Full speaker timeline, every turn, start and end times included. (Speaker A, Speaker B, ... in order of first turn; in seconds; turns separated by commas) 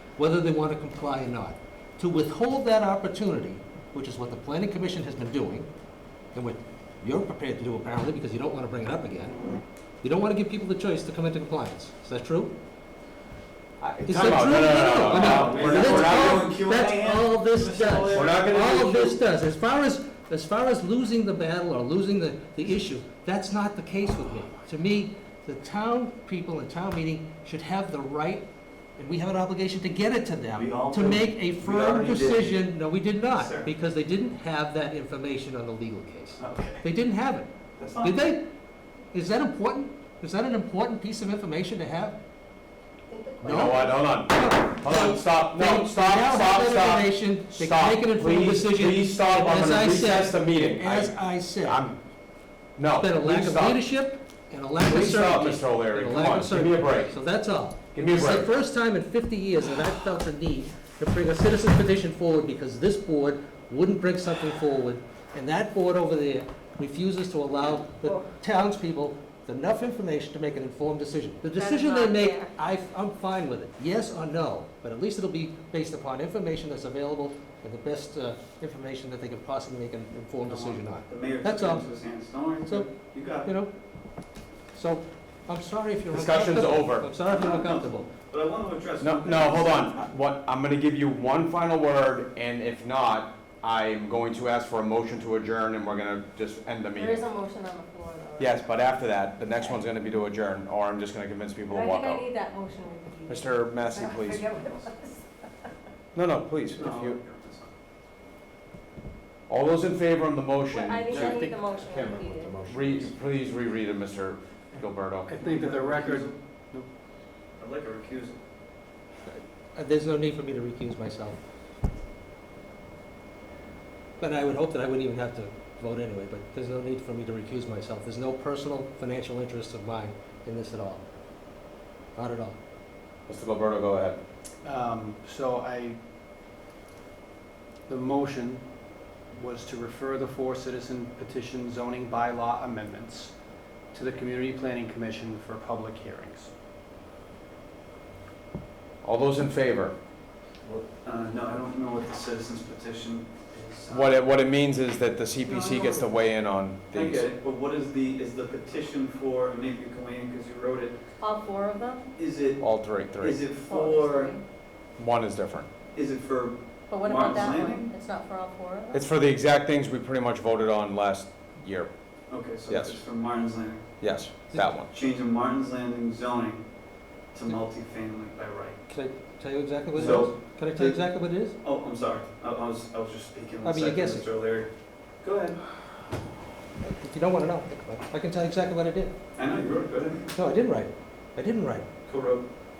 Speaker A: 0.2-5.7, Speaker A: 6.3-9.4, Speaker A: 10.0-12.5, Speaker B: 13.8-16.5, Speaker A: 14.1-37.5, Speaker C: 14.6-18.4, Speaker B: 18.1-19.2, Speaker C: 30.5-32.7, Speaker C: 33.3-33.7, Speaker C: 36.4-36.8, Speaker C: 37.8-38.2, Speaker A: 38.0-38.5, Speaker A: 39.1-42.2, Speaker D: 43.1-43.8, Speaker B: 43.4-52.0, Speaker A: 43.4-51.8, Speaker B: 52.8-53.8, Speaker A: 53.0-81.8, Speaker B: 54.9-57.1, Speaker B: 57.9-58.5, Speaker D: 68.0-68.3, Speaker D: 71.5-72.5, Speaker C: 80.4-83.5, Speaker A: 83.5-83.7, Speaker A: 84.7-88.1, Speaker B: 86.1-87.1, Speaker C: 87.3-90.0, Speaker B: 89.0-97.2, Speaker D: 96.9-98.7, Speaker B: 98.4-102.3, Speaker D: 99.6-99.8, Speaker D: 101.7-105.2, Speaker B: 103.3-104.5, Speaker B: 106.1-107.2, Speaker C: 106.8-107.7, Speaker B: 109.5-115.3, Speaker D: 110.7-113.0, Speaker E: 111.1-111.5, Speaker E: 115.2-116.9, Speaker C: 115.4-116.3, Speaker C: 117.6-118.4, Speaker A: 119.3-121.4, Speaker A: 124.2-131.1, Speaker A: 132.2-132.6, Speaker B: 133.3-134.2, Speaker E: 134.6-136.0, Speaker E: 137.9-138.6, Speaker E: 139.3-143.3, Speaker E: 143.9-146.5, Speaker B: 149.0-149.9, Speaker C: 150.7-154.2, Speaker B: 153.9-157.3, Speaker D: 155.4-156.1, Speaker C: 156.9-161.0, Speaker D: 161.2-162.1, Speaker C: 162.2-162.6, Speaker B: 162.6-163.4, Speaker C: 163.2-164.4, Speaker D: 163.6-164.4, Speaker B: 165.0-165.7, Speaker C: 165.9-167.9, Speaker D: 166.9-169.0, Speaker B: 168.9-171.9, Speaker C: 172.3-173.9, Speaker B: 172.7-173.0, Speaker B: 174.0-174.9, Speaker C: 174.9-176.6, Speaker C: 177.3-178.8, Speaker A: 178.9-181.6, Speaker C: 179.9-181.0, Speaker C: 181.6-184.7, Speaker A: 183.6-184.3, Speaker C: 185.2-185.6, Speaker A: 186.8-189.1, Speaker C: 189.4-190.3, Speaker A: 190.3-191.9, Speaker C: 192.1-192.4